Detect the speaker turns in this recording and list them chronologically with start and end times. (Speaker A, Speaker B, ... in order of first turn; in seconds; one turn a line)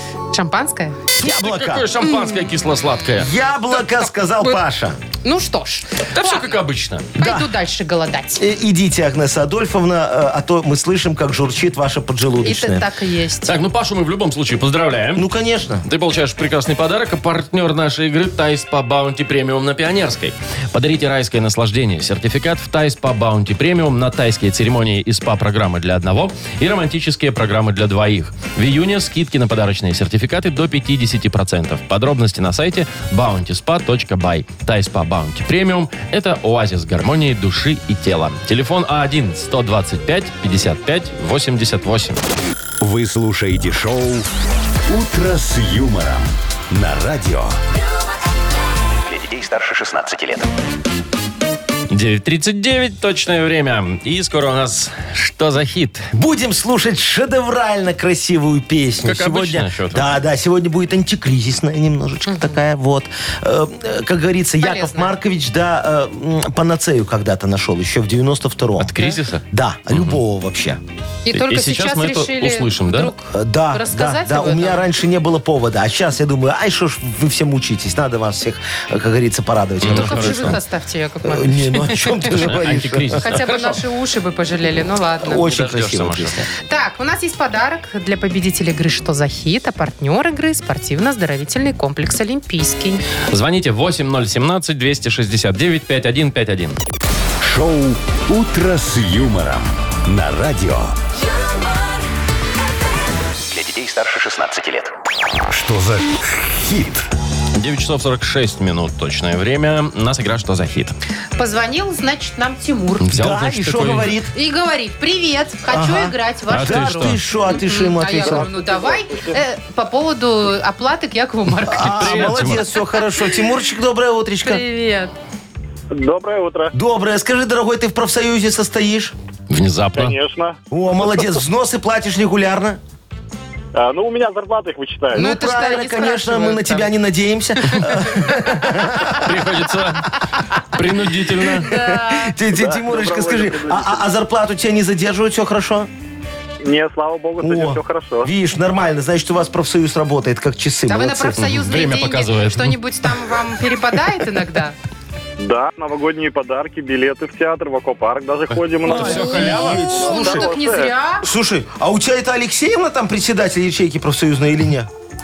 Speaker A: 0.3-1.0
Speaker B: 1.1-1.9
Speaker C: 1.2-3.3
Speaker A: 2.0-2.4
Speaker B: 3.2-5.0
Speaker A: 5.2-6.6
Speaker C: 6.1-7.1
Speaker A: 7.2-8.4
Speaker B: 7.2-7.5
Speaker B: 8.4-12.8
Speaker A: 12.4-13.5
Speaker C: 13.5-15.3
Speaker B: 15.1-15.8
Speaker C: 15.8-42.2
Speaker D: 42.8-44.2
Speaker D: 44.9-47.6
Speaker E: 49.1-50.5
Speaker C: 51.9-56.1
Speaker B: 56.1-70.8
Speaker C: 59.0-60.1
Speaker A: 62.3-62.6
Speaker A: 64.6-65.1
Speaker C: 68.8-70.2
Speaker A: 71.2-74.8
Speaker C: 71.3-73.1
Speaker B: 73.3-80.6
Speaker C: 79.8-80.6
Speaker A: 79.9-82.4
Speaker B: 81.2-83.2
Speaker C: 82.3-83.8
Speaker A: 83.2-85.5
Speaker B: 85.2-86.4
Speaker C: 85.5-86.5
Speaker A: 86.7-93.0
Speaker C: 93.3-96.8
Speaker D: 97.4-101.0
Speaker E: 103.5-104.9
Speaker D: 105.5-107.0
Speaker C: 107.5-110.9
Speaker A: 111.4-113.1
Speaker C: 113.0-114.2
Speaker B: 113.1-114.3
Speaker A: 114.3-123.2
Speaker B: 115.7-118.5
Speaker C: 116.5-117.2
Speaker F: 118.2-119.4
Speaker B: 121.7-124.6
Speaker C: 121.9-122.6
Speaker A: 124.4-125.1
Speaker F: 125.9-126.7
Speaker B: 126.7-129.1
Speaker C: 129.5-130.1
Speaker F: 129.9-130.6
Speaker B: 130.7-132.8
Speaker F: 131.1-131.4
Speaker F: 133.7-135.3
Speaker A: 135.1-136.9
Speaker B: 135.2-139.4
Speaker A: 137.7-138.4
Speaker C: 139.2-140.2
Speaker C: 140.7-141.7
Speaker A: 141.5-142.4
Speaker B: 141.7-145.9
Speaker F: 142.5-144.1
Speaker F: 146.6-148.3
Speaker B: 147.4-151.4
Speaker A: 150.9-154.7
Speaker C: 151.4-152.8
Speaker F: 155.4-160.9
Speaker C: 158.8-159.9
Speaker B: 158.9-160.5
Speaker A: 158.9-161.2
Speaker B: 161.2-164.9